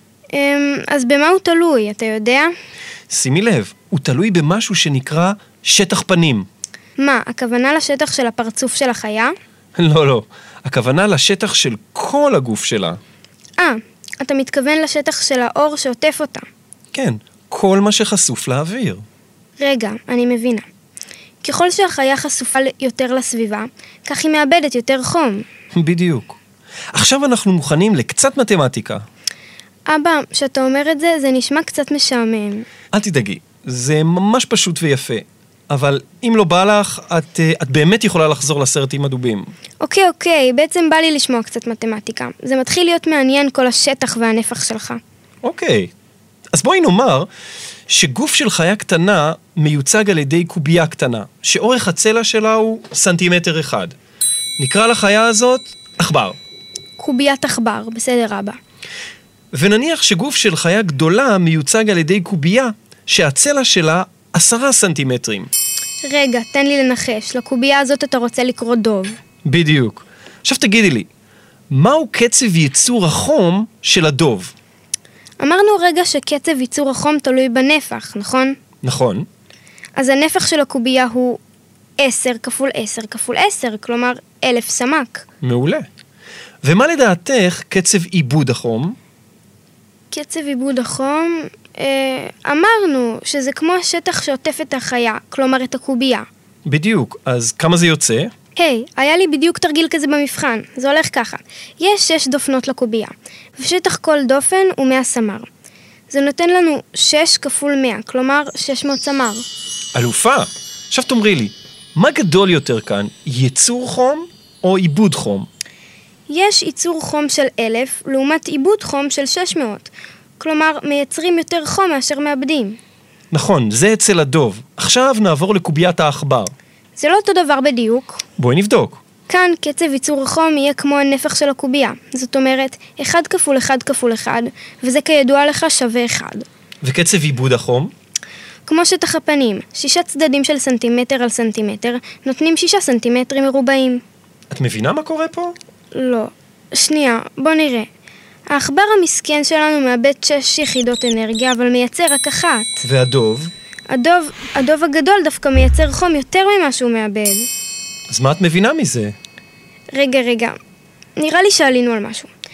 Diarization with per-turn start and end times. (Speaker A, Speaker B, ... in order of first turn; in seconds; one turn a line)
Speaker A: 0.3-2.5
Speaker B: 3.1-6.5
Speaker A: 7.0-9.3
Speaker B: 9.8-13.0
Speaker A: 13.6-16.4
Speaker B: 16.9-19.0
Speaker A: 19.6-20.6
Speaker A: 21.4-25.4
Speaker B: 25.7-26.4
Speaker B: 26.9-29.0
Speaker A: 29.9-32.7
Speaker B: 32.9-39.5
Speaker A: 39.8-45.0
Speaker B: 45.4-45.9
Speaker B: 46.5-47.3
Speaker B: 47.9-53.9
Speaker B: 54.6-56.4
Speaker A: 57.0-58.6
Speaker B: 59.5-65.5
Speaker A: 66.0-69.2
Speaker B: 69.4-71.1
Speaker B: 71.7-74.5
Speaker A: 75.4-78.5
Speaker B: 78.8-79.2
Speaker A: 80.0-81.4
Speaker A: 82.0-85.2
Speaker B: 85.4-85.9
Speaker B: 86.6-89.0
Speaker A: 90.1-96.2
Speaker B: 96.7-98.3
Speaker A: 98.5-105.5
Speaker A: 106.1-109.4
Speaker B: 109.9-115.5
Speaker A: 116.3-122.8
Speaker B: 123.3-126.5
Speaker A: 127.0-128.2
Speaker B: 128.4-129.0
Speaker A: 129.3-136.4
Speaker B: 136.8-137.9
Speaker A: 138.7-144.0
Speaker B: 144.5-145.5
Speaker A: 145.9-147.9
Speaker A: 148.5-152.8
Speaker B: 152.8-153.5
Speaker A: 153.9-157.5
Speaker B: 158.1-159.1
Speaker A: 159.9-160.6
Speaker A: 161.2-162.3